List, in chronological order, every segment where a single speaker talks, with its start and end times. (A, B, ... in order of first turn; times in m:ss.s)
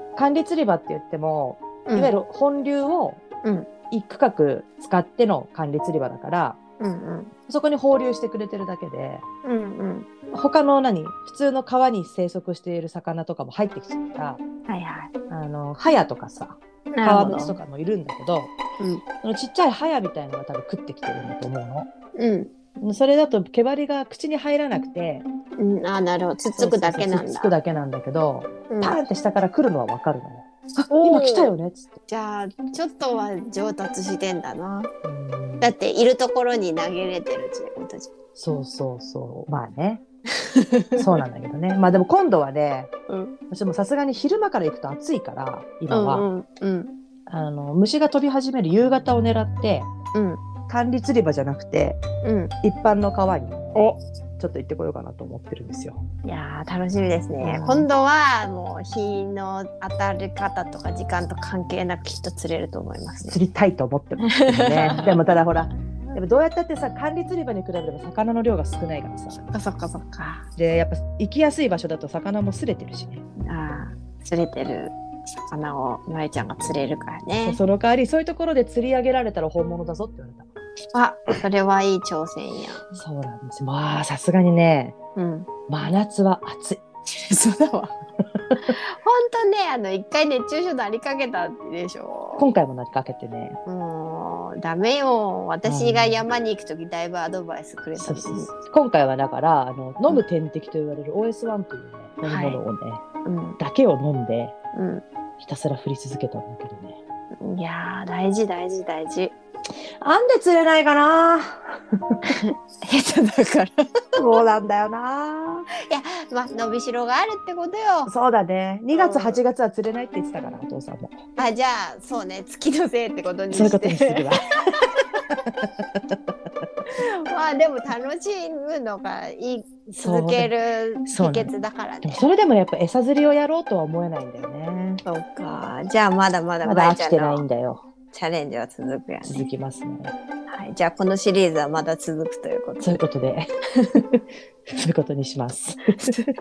0:00.2-0:03.2 A
0:01.9-0:02.2 B
0:03.9-0:06.6 A
0:06.8-0:07.3 B
0:07.5-0:09.2 A
0:09.4-0:10.1 B
0:10.3-0:14.4 A
0:14.7-0:15.1 B
0:15.3-0:18.5 A
0:16.9-0:17.6 B
0:19.2-0:21.9 A
0:22.2-0:22.5 B
0:22.8-0:25.2 A
0:25.6-0:27.6 B
0:26.6-0:32.0 A
0:28.7-0:29.0 B
0:30.9-0:31.5 B
0:32.1-0:34.9 B
0:35.0-0:35.7 A
0:35.6-0:38.1 B
0:38.4-0:40.0 A
0:40.6-0:41.0 B
0:41.0-0:42.9 A
0:43.1-0:43.4 B
0:43.5-0:46.3 A
0:45.9-0:46.9 B
0:47.3-0:49.9 A
0:50.1-0:50.4 B
0:50.7-0:52.0 A
0:52.2-0:52.5 B
0:52.6-0:53.7 A
0:53.8-0:54.0 B
0:54.4-0:56.0 A
0:56.2-1:03.4 B
0:57.4-0:57.9 A
1:03.2-1:09.5 A
1:04.3-1:05.2 B
1:09.5-1:10.5 B
1:10.6-1:13.2 A
1:13.4-1:17.6 B
1:17.4-1:20.5 A
1:20.9-1:22.8 B
1:22.9-1:25.0 A
1:25.2-1:25.5 B
1:25.7-1:26.8 A
1:27.1-1:27.9 B
1:29.0-1:32.5 B
1:32.4-1:33.6 A
1:33.7-1:38.5 B
1:35.6-1:36.3 A
1:38.0-1:43.0 A
1:42.2-1:42.6 B
1:43.2-1:43.6 B
1:43.6-1:44.6 A
1:44.7-1:45.0 B
1:45.4-1:47.0 A
1:47.4-1:49.4 B
1:50.0-1:52.4 A
1:52.4-1:53.8 B
1:54.2-1:55.7 A
1:55.8-1:58.1 B
1:58.1-2:01.2 A
1:58.9-1:59.4 B
2:01.4-2:04.3 B
2:03.5-2:04.5 A
2:07.3-2:12.2 B
2:10.0-2:10.5 A
2:11.1-2:11.5 A
2:12.0-2:15.0 A
2:15.0-2:17.4 B
2:16.6-2:17.8 A
2:18.1-2:19.5 B
2:19.2-2:20.1 A
2:20.5-2:23.0 B
2:22.8-2:24.2 A
2:24.8-2:26.3 A